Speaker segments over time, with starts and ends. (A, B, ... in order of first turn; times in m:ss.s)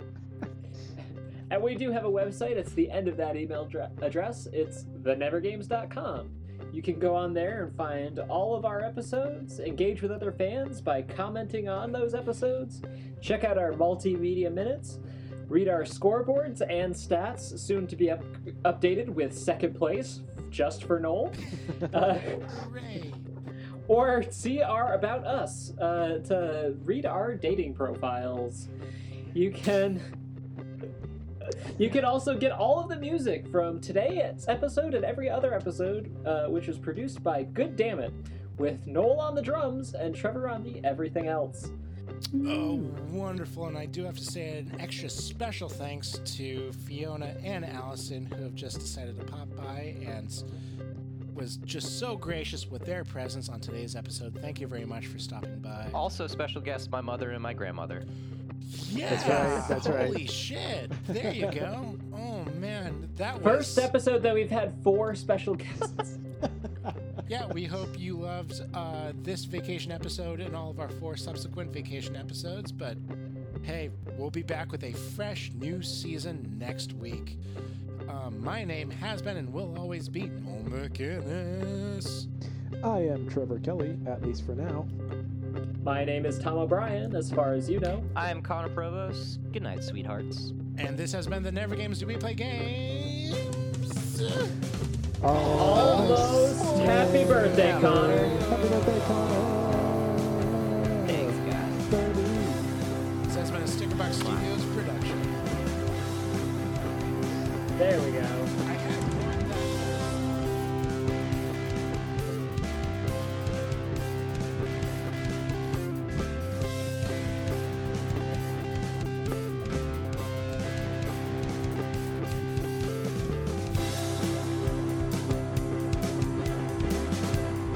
0:01.5-0:22.5 A
0:22.4-0:23.3 B
0:23.9-0:28.7 A
0:29.3-0:30.0 A
0:31.7-0:41.7 A
0:42.3-0:43.0 C
0:42.4-0:50.4 B
0:51.3-0:56.0 B
0:55.9-0:58.1 D
0:58.6-1:03.9 B
0:59.1-1:00.2 C
0:59.2-1:00.0 D
1:01.0-1:01.6 C
1:03.4-1:06.2 A
1:07.3-1:13.0 B
1:13.6-1:17.4 B
1:18.1-1:22.3 B
1:22.8-1:24.9 C
1:25.8-1:28.1 A
1:28.1-1:30.5 D
1:30.8-1:34.6 B
1:35.2-1:42.7 C
1:35.4-1:39.7 B
1:35.5-1:38.4 A
1:41.1-1:41.8 D
1:43.3-1:45.4 B
1:44.2-1:44.5 D
1:47.8-1:48.5 A
1:48.6-1:50.4 B